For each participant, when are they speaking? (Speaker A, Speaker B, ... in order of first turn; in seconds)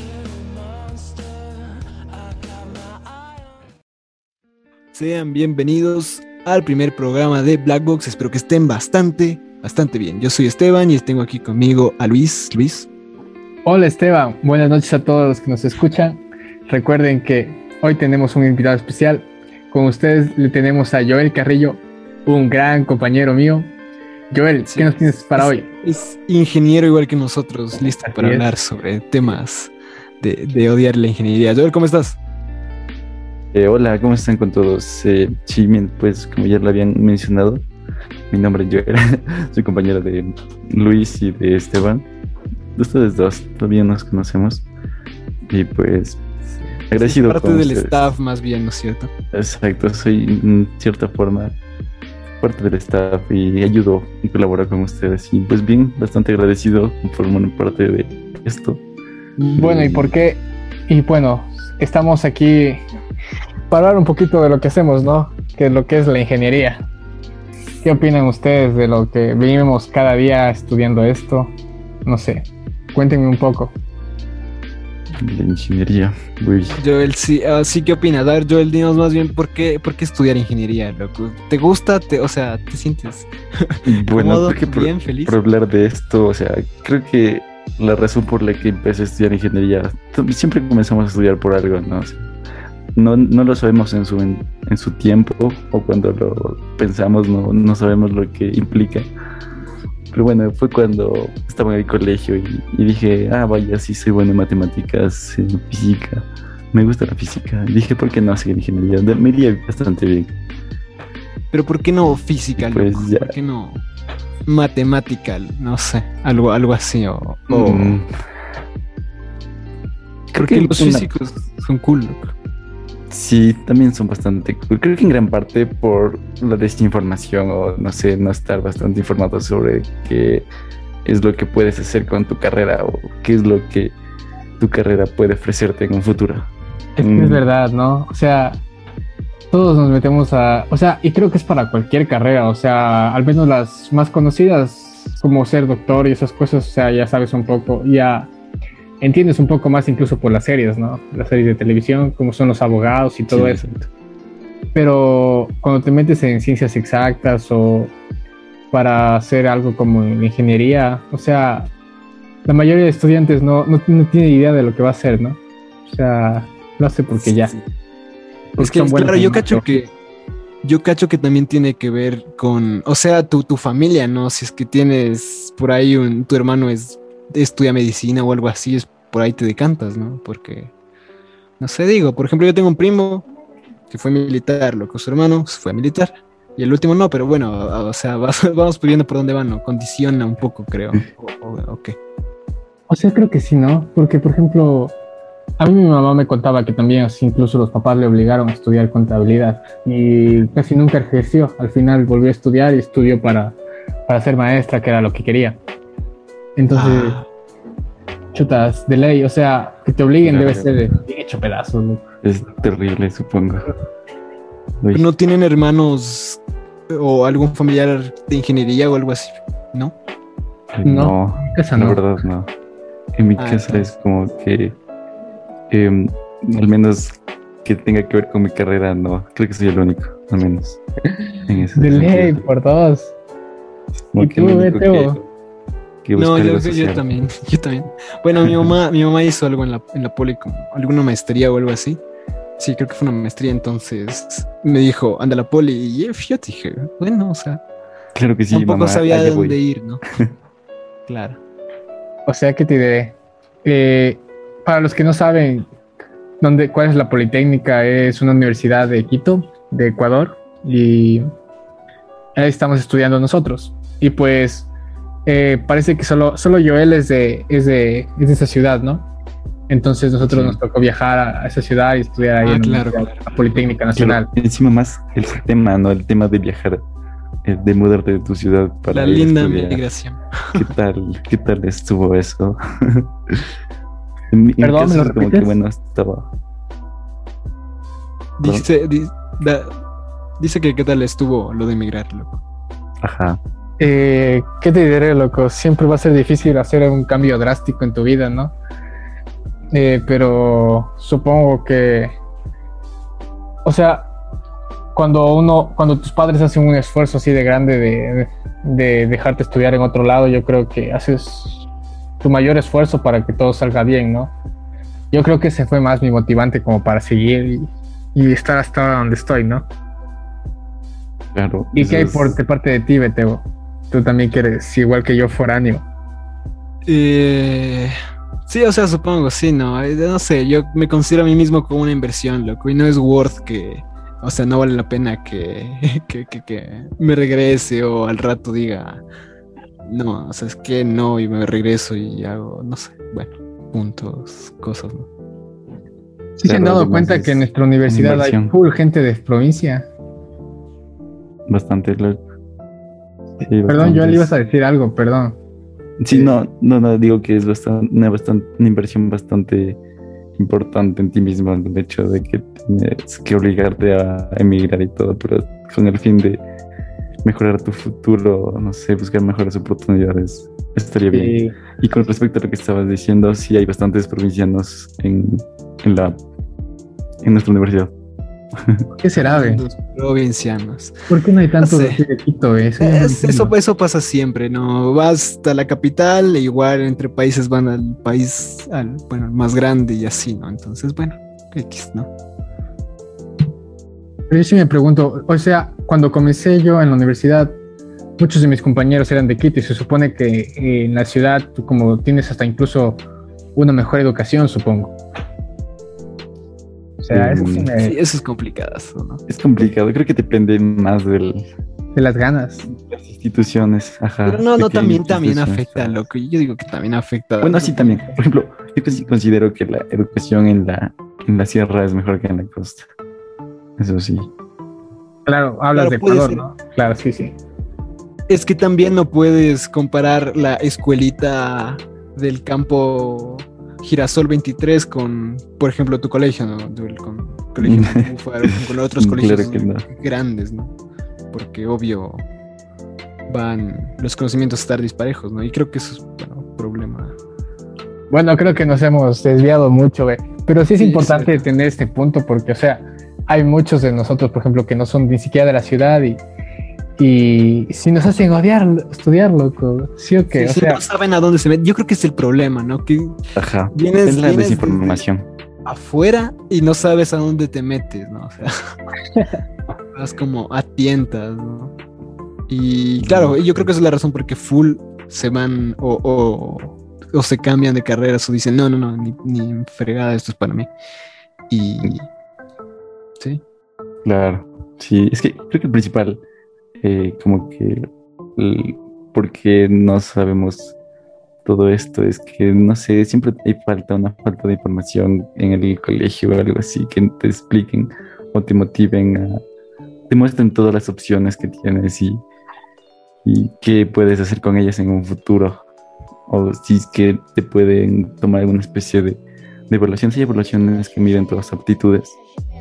Speaker A: 4.9-12.9, 24.7-32.2, 46.5-49.1, 76.8-85.4, 111.5-113.8, 114.5-118.0, 120.4-122.3, 167.2-167.6, 168.6-169.9, 170.6-180.7, 181.6-183.2, 183.9-191.9, 206.7-207.3, 214.9-219.9, 223.4-223.9, 236.2-242.0, 242.6-247.6, 248.5-250.0, 251.1-251.4, 272.4-273.3, 278.9-280.7, 288.4-289.7, 290.4-292.4, 326.9-327.9, 328.5-339.0, 339.8-345.1, 379.2-380.9, 381.6-382.0, 382.8-392.1, 407.8-409.2, 414.2-418.1, 425.7-426.4, 428.3-440.7, 441.3-442.2, 443.3-447.1, 450.8-451.4, 460.3-463.2, 463.7-465.0, 465.6-468.5, 469.9-471.7, 472.5-480.7, 481.5-482.1
Speaker B: 13.6-23.7, 24.3-25.7, 27.9-28.4, 59.4-62.8, 63.7-66.8, 67.8-71.5, 72.0-73.7, 137.0-138.6, 139.5-148.3, 149.0-153.6, 154.7-157.9, 158.7-161.7, 162.4-167.5, 168.6-169.7, 192.9-194.9, 195.6-203.6, 204.1-205.6, 206.6-207.2, 208.3-212.0, 220.8-222.0, 231.7-233.1, 234.2-235.2, 252.3-255.7, 256.4-261.3, 262.4-264.7, 265.2-269.1, 269.7-274.3, 284.6-285.5, 293.8-298.5, 299.7-302.1, 303.6-304.1, 304.9-311.6, 312.2-314.3, 315.1-319.6, 321.8-325.8, 346.4-349.9, 353.7-355.4, 371.1-371.5, 379.0-379.6, 381.1-383.5, 394.3-397.5, 398.2-403.0, 403.5-404.9, 407.0-407.9, 411.9-412.7, 425.2-427.3, 448.1-456.2, 457.0-460.8
Speaker C: 33.5-37.6, 38.3-42.1, 42.7-44.6, 45.5-46.2, 46.9-48.1, 49.3-51.6, 52.4-58.8, 59.5-60.1, 75.2-76.8, 83.8-92.3, 92.9-99.1, 100.1-110.3, 112.6-113.3, 117.5-118.1, 120.3-121.1, 123.1-130.5, 131.0-133.9, 134.6-137.4, 153.3-153.9, 210.2-210.7, 212.2-213.7, 220.7-222.5, 223.1-224.8, 225.7-230.8, 231.5-232.4, 234.1-235.3, 236.0-237.0, 248.2-249.6, 270.2-270.6, 273.9-276.8, 277.4-279.8, 280.5-283.4, 284.3-286.3, 293.0-293.4, 321.3-322.4, 346.4-348.5, 351.5-352.2, 353.4-354.3, 356.0-359.8, 360.4-366.4, 367.2-376.2, 377.2-377.9, 378.6-378.8, 407.1-407.7, 409.3-411.5, 412.7-416.0, 417.4-422.9, 423.8-424.3, 437.6-439.9, 463.3-465.2, 473.0-473.7, 484.0-486.2, 486.8-490.7, 491.4-499.4, 500.1-502.2, 503.2-505.6, 506.3-512.1